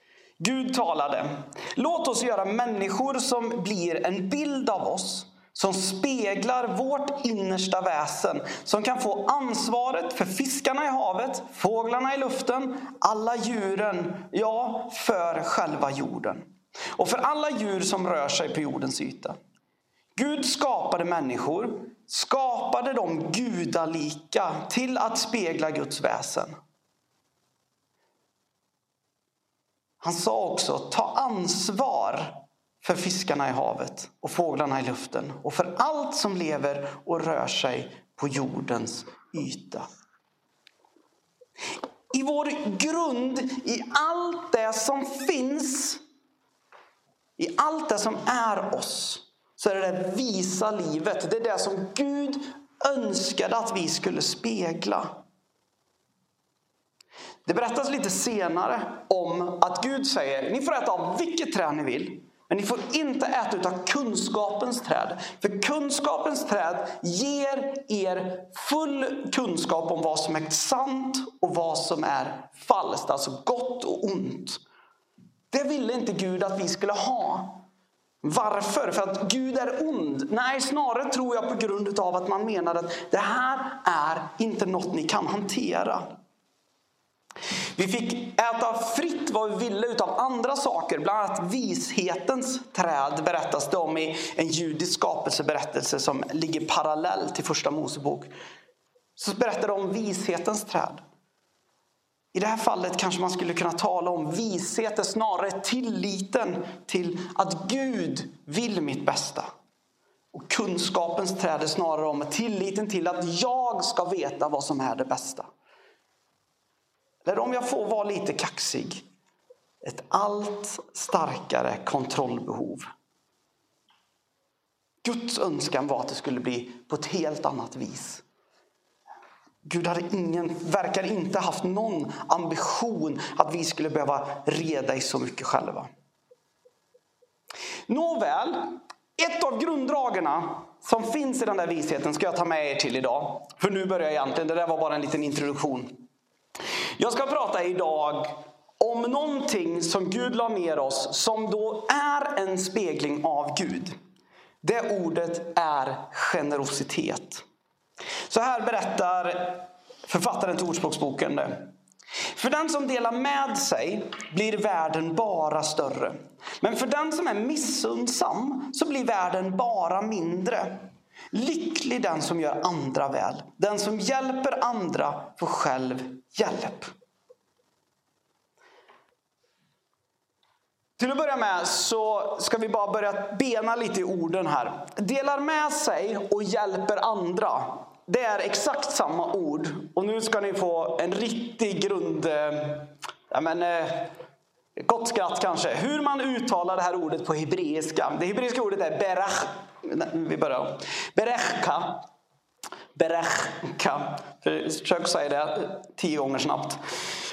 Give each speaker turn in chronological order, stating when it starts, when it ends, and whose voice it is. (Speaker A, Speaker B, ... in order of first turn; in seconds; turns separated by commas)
Speaker A: 0.4-16.4, Speaker A: 16.9-19.4, Speaker A: 20.2-26.5, Speaker A: 30.0-39.9, Speaker A: 42.1-46.0, Speaker A: 47.4-55.1, Speaker A: 57.5-74.6, Speaker A: 75.5-77.6, Speaker A: 78.2-86.1, Speaker A: 87.8-98.3, Speaker A: 99.2-101.0, Speaker A: 102.3-109.5, Speaker A: 110.3-115.5, Speaker A: 117.2-119.0, Speaker A: 119.8-122.9, Speaker A: 125.0-128.2, Speaker A: 129.6-135.9, Speaker A: 137.9-146.0, Speaker A: 147.0-153.9, Speaker A: 154.6-157.4, Speaker A: 158.3-161.7, Speaker A: 162.3-176.9, Speaker A: 181.0-194.1, Speaker A: 194.8-202.0, Speaker A: 202.9-206.8